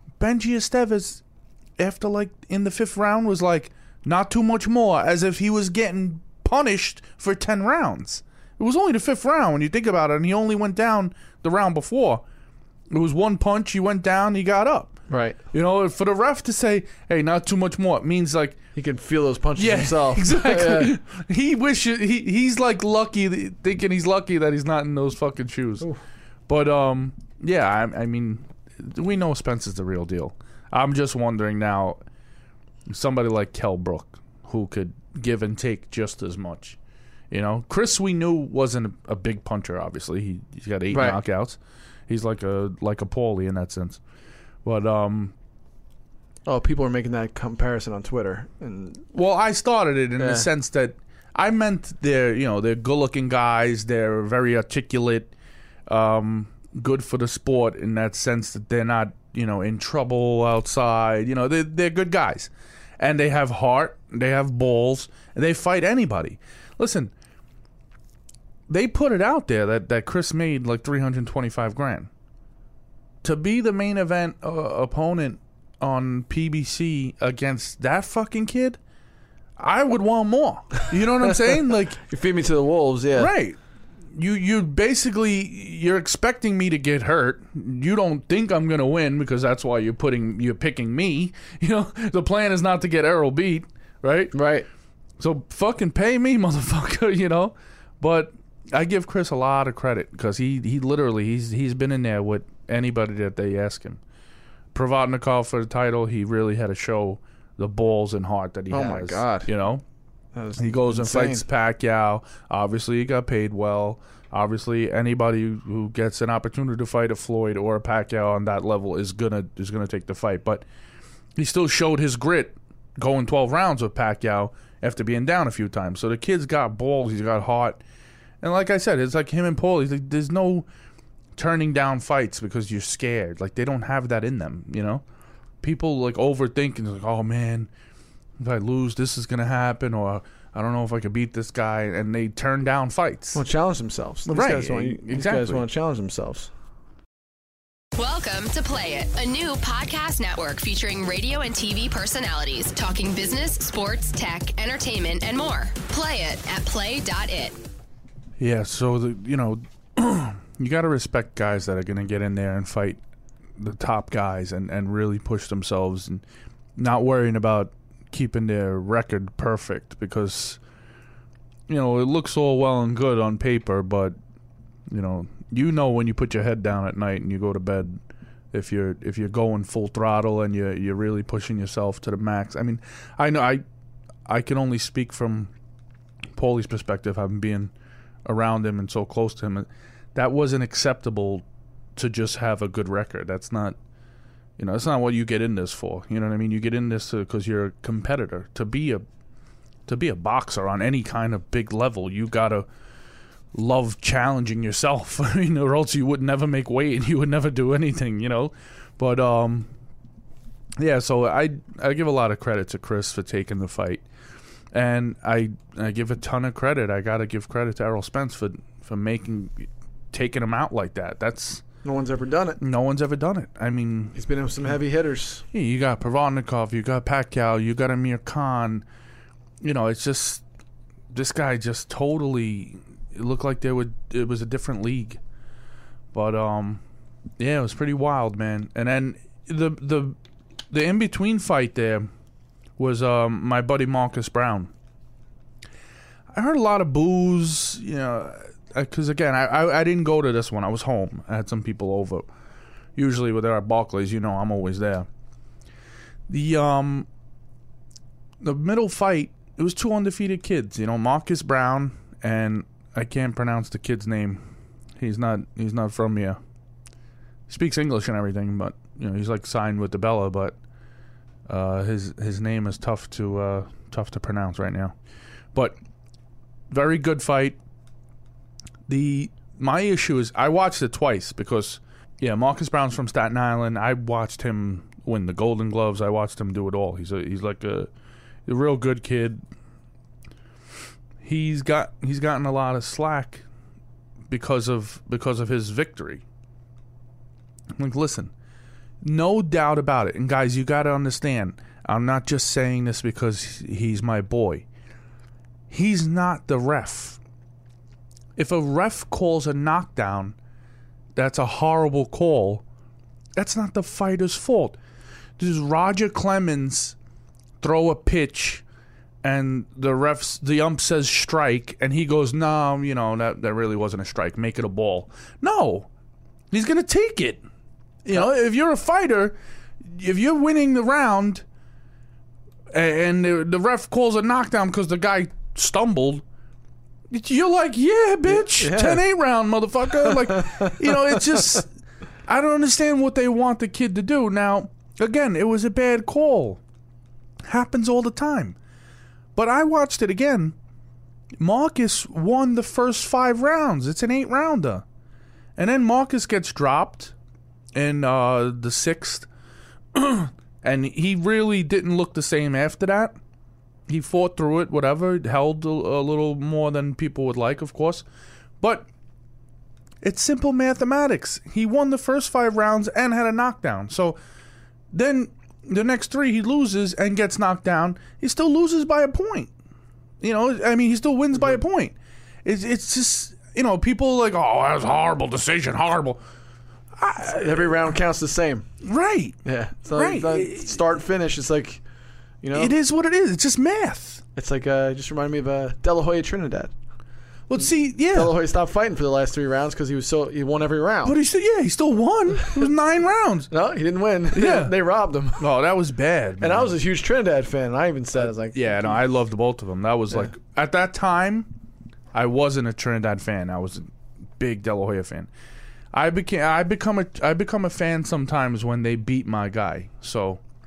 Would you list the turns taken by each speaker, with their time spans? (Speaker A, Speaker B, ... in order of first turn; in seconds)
Speaker A: 0.2-1.2, 1.8-12.2, 12.9-15.0, 15.5-18.6, 19.6-25.9, 26.5-32.0, 32.9-36.8, 37.3-44.0, 44.6-45.3, 49.1-55.3, 55.9-67.1, 68.7-72.1, 73.2-78.8, 79.6-82.0, 83.2-83.6, 84.1-94.4, 95.2-104.0, 104.7-109.8, 110.6-120.7, 121.4-127.8, 128.4-130.7, 131.4-135.0, 135.6-137.7, 138.4-143.4, 144.3-145.7, 158.4-163.0, 163.6-166.2, 166.8-170.6, 171.7-174.2, 174.9-178.0, 178.5-183.6, 184.3-185.5, 186.3-187.7, 188.2-191.4, 192.0-193.8, 194.6-199.1, 199.9-202.7, 203.5-209.7, 210.8-214.0, 214.7-221.6, 222.6-224.2, 225.5-228.8, 229.6-230.4, 231.1-235.2, 236.1-236.8, 237.4-240.2, 240.7-242.1, 242.8-244.7, 246.3-252.3, 253.0-255.1, 256.3-257.1, 258.4-264.4, 265.0-266.4, 267.5-270.6, 271.5-274.9, 276.7-277.6, 278.9-287.9, 288.5-289.4, 291.2-293.4, 294.3-296.2, 297.8-298.3, 299.0-304.7, 305.7-307.2, 308.4-310.4, 311.2-312.6, 313.4-314.8, 315.4-317.0, 317.6-318.6, 319.2-325.9, 326.5-327.4, 328.1-331.4, 332.7-336.2, 337.1-341.7, 342.3-346.6, 347.4-348.6, 349.4-350.6, 351.4-354.8, 355.6-357.1, 357.8-359.3, 359.9-363.2, 363.9-368.1, 368.6-368.9, 370.0-374.2, 374.9-379.5, 380.2-386.2, 387.0-387.7, 388.8-389.4, 389.9-390.8, 392.5-394.2, 397.5-398.4, 401.0-403.5, 404.3-404.8, 405.4-406.8, 408.4-411.5, 412.1-415.3, 415.9-420.4
Speaker B: 15.1-15.4, 18.8-20.9, 40.9-41.2, 46.5-49.1, 50.2-50.5, 82.0-83.3, 94.3-94.7, 108.7-109.5, 110.3-111.5, 143.3-146.5, 221.8-222.6, 224.2-225.4, 338.3-339.0, 340.1-341.4, 387.2-388.7, 389.4-391.8, 392.4-392.7, 394.4-396.7, 398.1-401.2, 403.5-405.5, 406.4-409.0
Speaker C: 148.0-157.6